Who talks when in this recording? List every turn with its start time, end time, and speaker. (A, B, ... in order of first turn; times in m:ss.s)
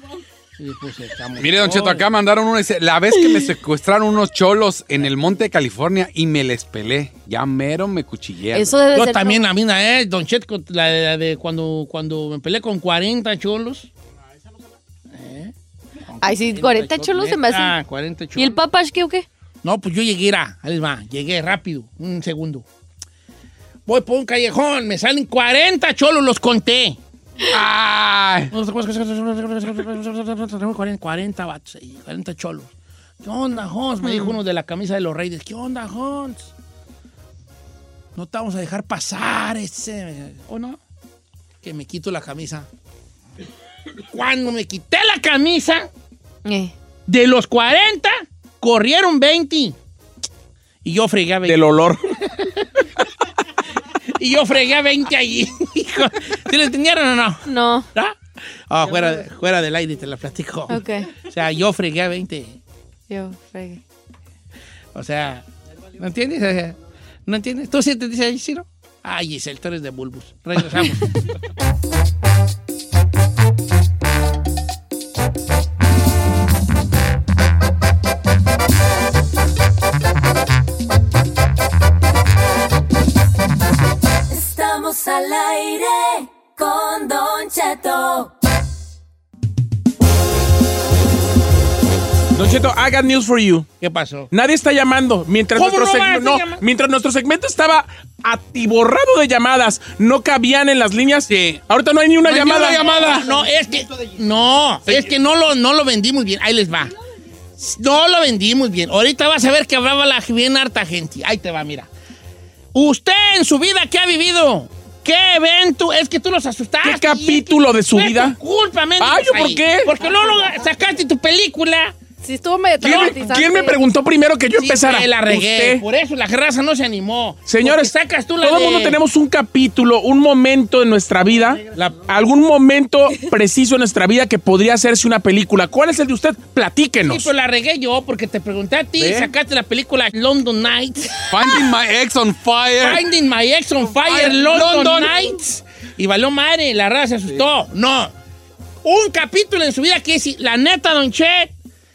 0:00.6-0:02.1 A
0:01.4-0:08.8 B
0:08.5-0:09.4 C
0:08.9-0:13.9 A
0:15.1-0:15.5 A
0:16.0-0:18.6 A
0:16.2-0:17.8 C
0:18.4-0:19.2 C
0:19.6-0:22.6 A
0:23.9-0:27.0 A
0:27.5-0:28.5 B
0:28.5-0:32.7 A
0:33.2-0:36.5 A
0:38.1-0:40.8 A
0:41.6-0:42.7 A
0:44.1-0:45.9 A
0:46.4-0:46.7 C
0:47.1-0:49.8 A
0:50.8-0:51.6 A
0:51.4-0:52.0 D
0:54.2-0:58.2 A
0:57.4-0:57.9 C
0:58.7-1:02.6 A
1:00.7-1:01.1 C
1:03.1-1:03.8 C
1:04.9-1:05.4 A
1:06.0-1:11.1 A
1:24.3-1:28.3 E
1:32.3-1:33.7 D
1:33.8-1:34.3 A
1:34.3-1:43.1 D
1:35.5-1:36.6 A
1:41.3-1:41.6 B
1:42.2-1:43.4 B
1:42.4-1:46.9 A
1:44.8-1:45.2 B
1:47.6-1:51.9 A
1:52.7-2:01.9 A
1:56.8-1:58.4 D
1:59.0-1:59.9 D
2:02.2-2:03.8 C
2:02.8-2:05.8 D
2:02.8-2:03.1 A
2:04.6-2:09.0 A
2:07.4-2:17.3 D
2:11.7-2:12.0 A
2:17.0-2:21.3 A
2:19.0-2:19.3 D
2:21.3-2:23.0 B
2:22.8-2:28.1 A
2:23.9-2:25.2 B
2:28.8-2:31.5 A